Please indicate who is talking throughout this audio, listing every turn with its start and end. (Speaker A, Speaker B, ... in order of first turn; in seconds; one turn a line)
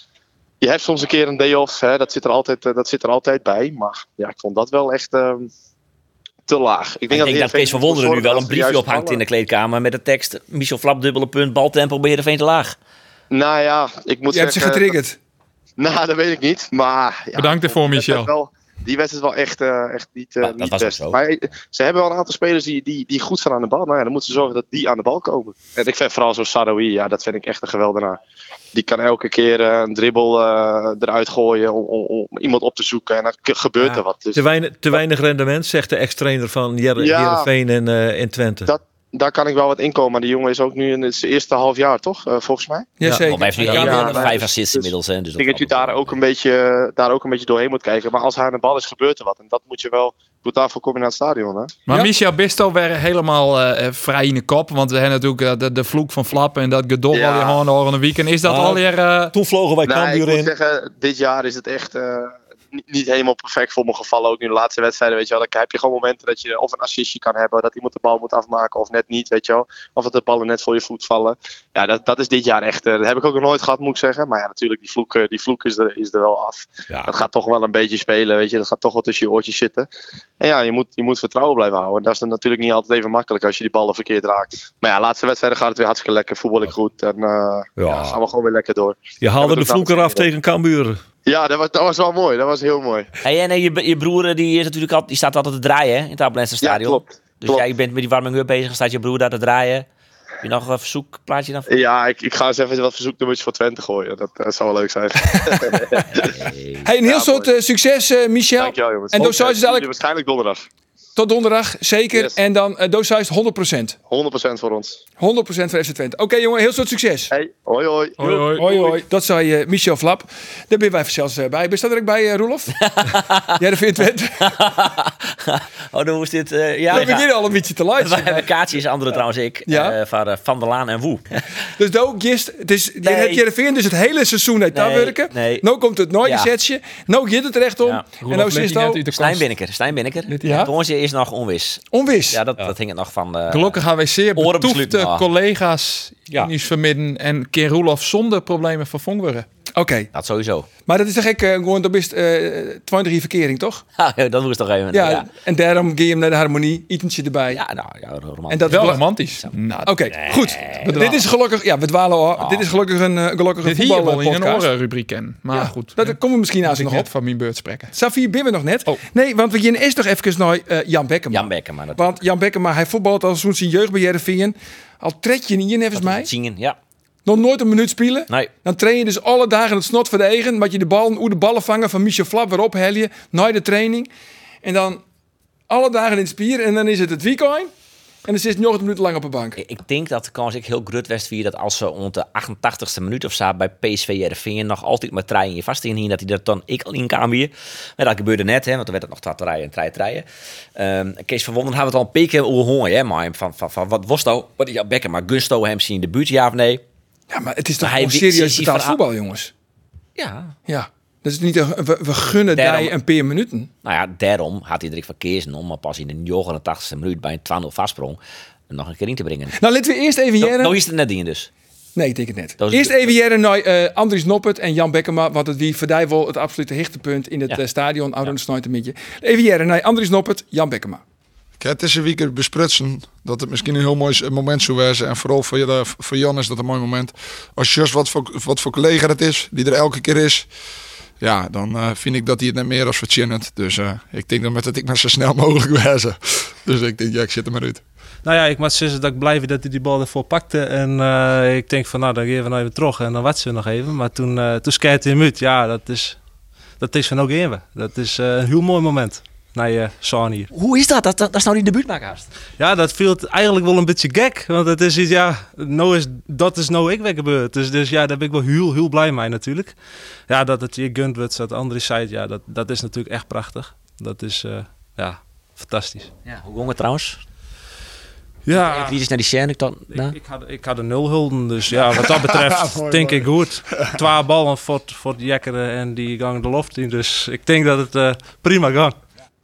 Speaker A: 0.6-5.5
Speaker A: 6.5-9.2
Speaker B: 7.1-12.8
Speaker A: 13.3-14.9
Speaker C: 14.3-15.2
Speaker A: 15.8-28.2
Speaker D: 17.4-18.3
Speaker B: 20.4-21.2
Speaker A: 28.7-34.4
Speaker E: 34.3-38.7
Speaker A: 37.0-37.5
Speaker A: 38.7-42.9
Speaker C: 43.0-44.3
Speaker B: 43.3-46.2
Speaker A: 43.7-51.8
Speaker D: 51.9-59.3
Speaker A: 57.1-57.6
Speaker E: 58.4-60.5
Speaker A: 59.9-79.9
Speaker A: 80.4-90.3
Speaker E: 87.8-88.2
Speaker E: 89.2-91.0
Speaker A: 91.3-93.1
Speaker B: 93.2-99.9
Speaker A: 96.6-97.7
Speaker B: 100.4-101.7
Speaker A: 101.7-106.4
Speaker C: 105.2-106.0
Speaker B: 106.2-106.8
Speaker C: 106.8-109.9
Speaker A: 107.0-107.5
Speaker A: 108.6-110.7
Speaker C: 111.2-114.0
Speaker A: 114.1-115.0
Speaker C: 115.2-117.3
Speaker A: 117.3-118.7
Speaker D: 118.2-119.0
Speaker C: 118.5-122.8
Speaker B: 122.8-123.6
Speaker C: 123.6-124.5
Speaker B: 124.4-127.3
Speaker C: 126.9-128.5
Speaker B: 128.0-131.4
Speaker C: 129.7-130.0
Speaker C: 131.8-139.1
Speaker B: 133.0-133.4
Speaker B: 134.7-135.6
Speaker B: 136.2-136.5
Speaker D: 138.2-139.5
Speaker B: 139.1-143.8
Speaker C: 140.3-140.7
Speaker C: 141.9-142.4
Speaker D: 143.5-149.5
Speaker B: 144.3-145.3
Speaker C: 149.8-150.1
Speaker B: 150.1-150.7
Speaker C: 150.9-153.8
Speaker B: 154.0-155.3
Speaker C: 154.9-157.6
Speaker B: 157.5-159.5
Speaker C: 158.5-159.0
Speaker D: 158.7-160.1
Speaker C: 159.9-164.7
Speaker B: 160.3-160.9
Speaker D: 160.9-161.2
Speaker B: 162.4-162.7
Speaker D: 163.6-167.9
Speaker C: 165.5-167.1
Speaker C: 167.9-176.3
Speaker B: 171.3-172.1
Speaker B: 175.9-176.8
Speaker C: 177.3-184.1
Speaker C: 184.6-185.0
Speaker C: 185.7-187.7
Speaker C: 188.3-189.6
Speaker B: 189.6-200.2
Speaker B: 200.8-206.8
Speaker C: 207.3-209.5
Speaker B: 207.8-209.0
Speaker B: 210.2-210.5
Speaker C: 210.7-213.7
Speaker B: 212.5-212.9
Speaker B: 213.8-218.2
Speaker B: 218.7-219.6
Speaker C: 219.6-220.8
Speaker B: 220.4-221.5
Speaker C: 222.0-231.0
Speaker B: 222.6-223.2
Speaker F: 231.6-240.5
Speaker F: 241.2-247.8
Speaker G: 248.2-256.2
Speaker G: 256.8-260.5
Speaker B: 260.5-262.3
Speaker G: 262.6-269.8
Speaker G: 270.3-276.1
Speaker B: 276.3-277.2
Speaker G: 278.5-279.0
Speaker B: 278.5-280.2
Speaker G: 279.9-289.0